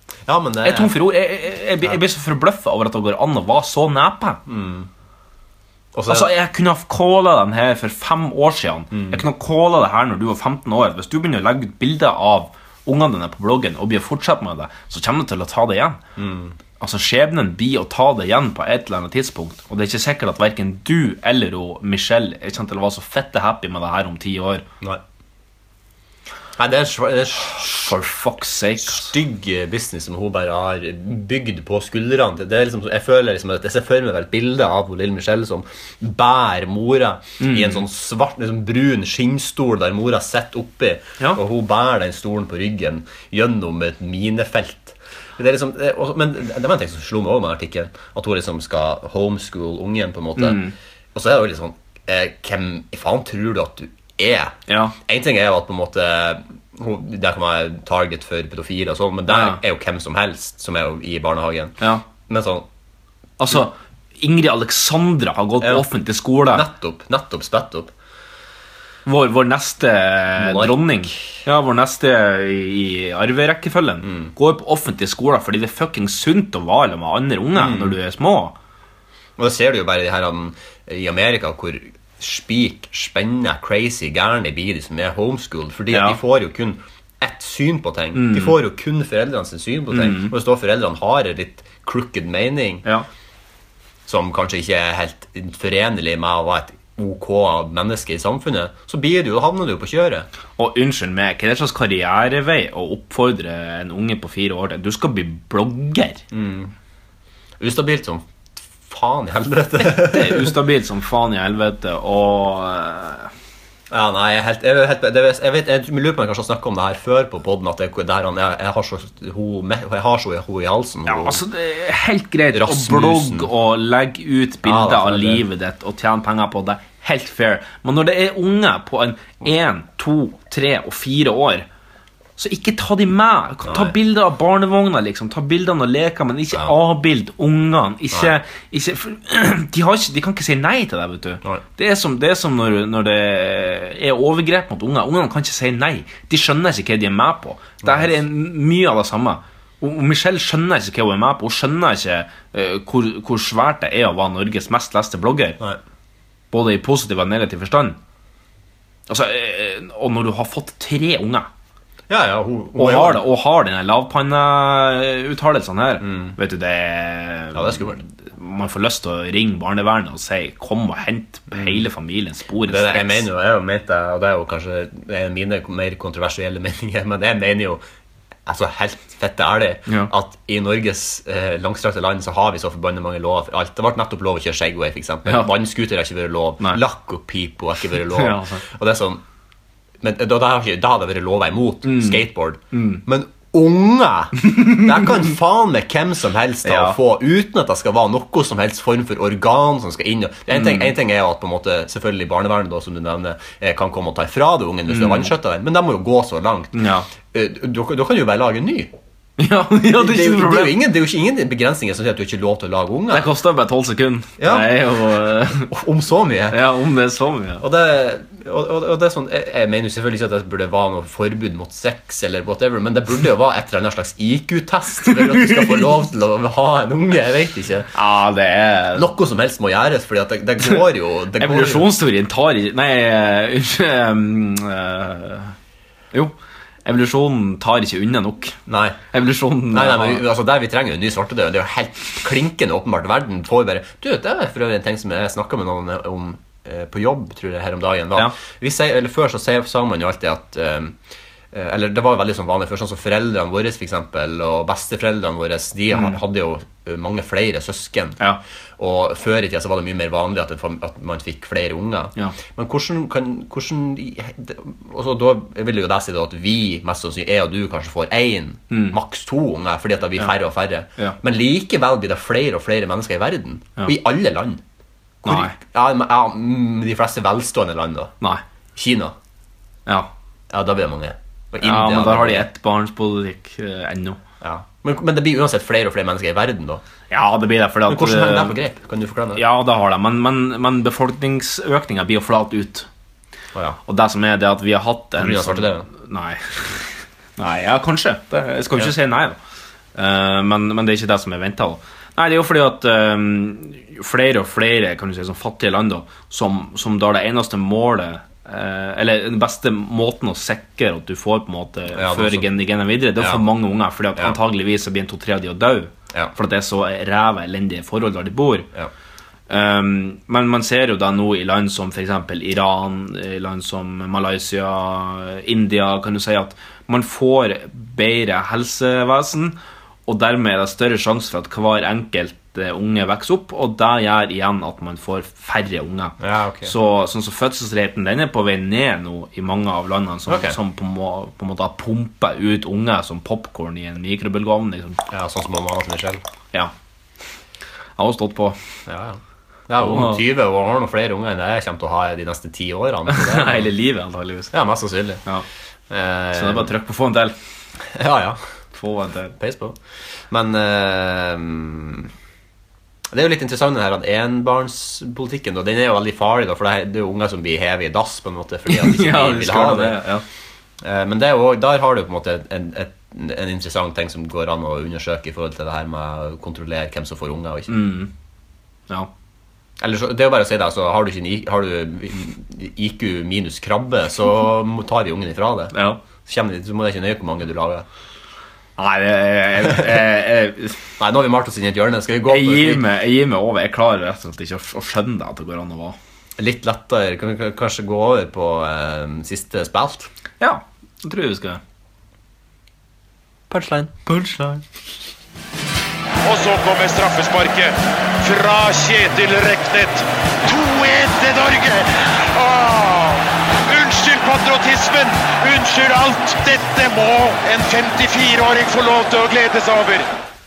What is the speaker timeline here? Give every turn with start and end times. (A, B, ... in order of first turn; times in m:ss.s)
0:00.3-0:00.9 A
0:00.6-0:04.4 B
0:04.5-0:04.9 A
0:05.9-0:06.3 A
0:06.1-0:16.0 B
0:08.9-0:09.2 A
0:16.2-0:16.6 A
0:16.8-0:24.7 B
0:26.6-0:28.0 A
0:27.5-0:29.2 B
0:28.8-0:50.6 A
0:37.4-0:37.8 B
0:50.4-0:50.7 B
0:51.1-1:02.7 A
0:54.7-0:55.0 B
0:59.3-0:59.6 B
1:03.4-1:06.7 B
1:06.5-1:07.9 A
1:09.1-1:18.6 B
1:10.4-1:11.2 A
1:14.0-1:14.3 A
1:17.6-1:18.0 A
1:19.4-1:32.9 A
1:25.9-1:26.2 B
1:28.2-1:28.6 B
1:29.9-1:30.3 B
1:34.1-1:40.3 A
1:40.6-1:46.2 B
1:46.3-1:46.7 A
1:47.6-1:50.6 A
1:49.8-1:53.3 B
1:53.9-2:01.4 A
2:01.1-2:11.7 B
2:02.5-2:03.5 A
2:04.6-2:05.4 A
2:12.4-2:35.6 B
2:13.7-2:13.9 A
2:27.8-2:28.1 A
2:36.5-2:38.0 B
2:39.1-2:41.5 B
2:42.1-2:43.2 A
2:42.8-2:53.3 B
2:46.0-2:46.4 A
2:47.5-2:48.0 A
2:52.7-2:57.8 A
2:58.5-3:09.2 A
3:05.3-3:05.5 B
3:08.2-3:08.6 B
3:10.0-3:28.9 A
3:11.8-3:13.0 B
3:14.4-3:15.0 B
3:16.6-3:17.0 B
3:20.5-3:20.9 B
3:24.9-3:25.3 B
3:26.7-3:27.1 B
3:29.4-3:30.8 B
3:29.9-3:33.3 A
3:33.1-3:35.7 B
3:34.4-3:34.8 A
3:35.7-3:36.6 A
3:36.5-3:37.6 B
3:37.6-3:47.9 A
3:48.0-3:49.1 B
3:49.0-3:51.9 A
3:51.4-3:55.6 B
3:56.8-3:58.6 B
3:58.7-3:59.0 A
3:59.1-4:00.2 B
3:59.7-4:11.0 A
4:11.5-4:18.2 A
4:15.9-4:16.2 B
4:18.8-4:34.6 A
4:28.7-4:29.0 B
4:35.2-4:38.1 A
4:35.2-4:35.6 B
4:38.8-4:39.2 A
4:40.5-4:42.5 A
4:41.6-4:44.2 B
4:44.4-4:46.8 A
4:47.1-4:48.6 B
4:47.9-4:49.4 A
4:49.4-4:52.9 B
4:53.9-4:59.4 B
4:55.2-4:55.9 A
5:00.0-5:18.7 B
5:11.9-5:12.5 A
5:13.2-5:13.4 A
5:19.5-5:29.6 B
5:30.1-5:45.0 B
5:36.2-5:36.7 A
5:40.3-5:40.6 A
5:45.1-5:46.2 A
5:48.0-5:48.6 B
5:48.9-5:53.7 A
5:49.8-5:50.2 B
5:53.1-5:54.5 B
5:54.5-5:55.2 A
5:55.9-5:56.7 A
5:56.3-5:57.4 B
5:57.9-5:58.4 A
5:58.7-5:59.4 B
5:59.4-6:02.1 A
6:03.1-6:10.0 A
6:08.7-6:10.2 B
6:10.8-6:17.8 A
6:17.7-6:18.1 B
6:19.8-6:25.7 A
6:25.7-6:26.0 B
6:26.2-6:27.9 A
6:28.8-6:30.8 B
6:31.0-6:32.8 A
6:32.3-6:36.0 B
6:36.4-6:40.1 A
6:40.4-6:41.6 B
6:43.5-6:44.6 B
6:46.2-7:00.1 C